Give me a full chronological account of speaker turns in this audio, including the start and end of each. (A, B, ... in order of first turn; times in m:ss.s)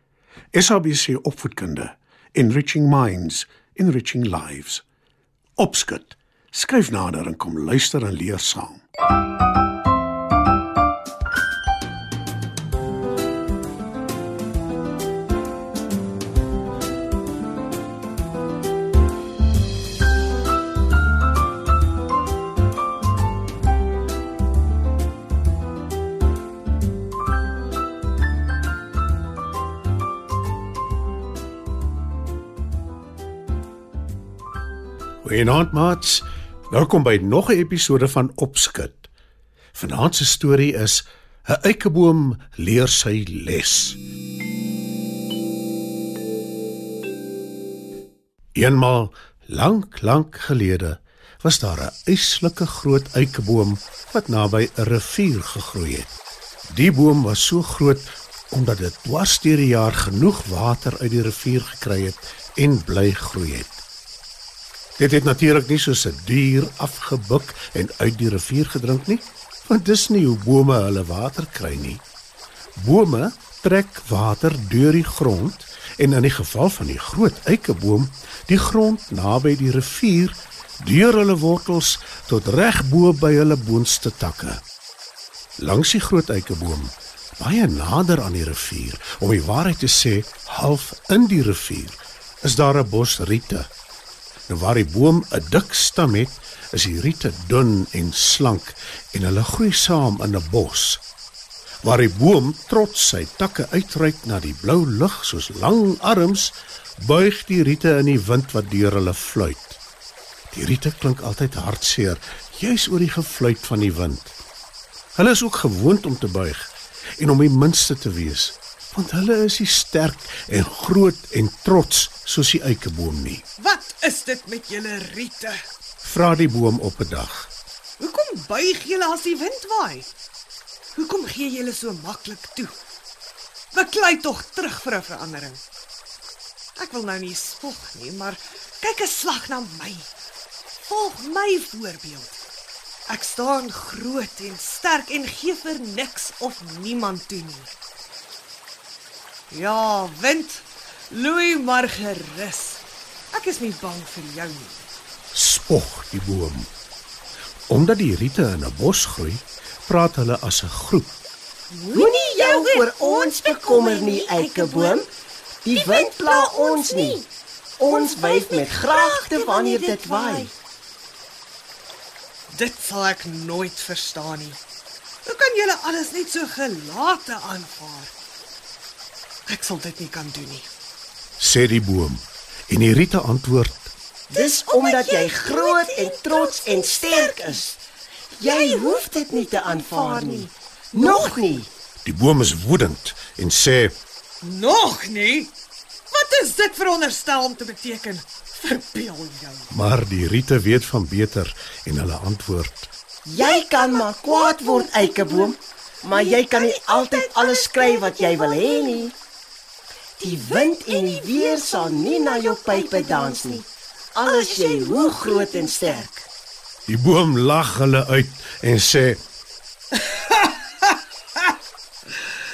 0:00.5-0:04.8 A
0:05.6-0:08.8 A
0:35.2-0:39.1 A
0:39.7-0:44.0 A
0:48.5-0:56.1 A
0:56.7-1:03.8 A
1:05.0-1:12.0 A
1:12.8-1:24.6 A
1:25.6-1:33.7 A
1:34.5-1:41.0 A
1:41.8-1:49.8 A
1:50.5-1:54.4 A
1:55.1-2:03.4 A
2:03.6-2:05.6 B
2:06.0-2:07.5 A
2:08.0-2:10.1 B
2:10.9-2:12.8 B
2:13.7-2:15.6 B
2:16.8-2:20.1 B
2:20.8-2:22.4 B
2:23.1-2:27.7 B
2:29.5-2:34.8 B
2:35.3-2:36.7 A
2:37.7-2:41.1 A
2:41.7-2:45.0 B
2:41.9-2:45.1 C
2:45.6-2:47.2 C
2:45.7-2:47.2 B
2:47.8-2:50.5 C
2:47.8-2:50.5 B
2:52.5-2:54.6 B
2:55.2-2:58.1 B
2:59.5-3:00.7 B
3:01.4-3:03.9 A
3:04.3-3:07.8 B
3:04.3-3:07.8 C
3:08.4-3:11.4 B
3:08.4-3:11.7 C
3:12.0-3:13.9 A
3:14.4-3:15.5 B
3:16.1-3:19.7 B
3:19.7-3:22.9 A
3:23.2-3:29.1 C
3:23.4-3:25.6 B
3:26.1-3:29.1 B
3:30.2-3:33.7 B
3:30.2-3:36.1 C
3:34.2-3:36.2 B
3:36.9-3:39.2 A
3:39.9-3:41.5 B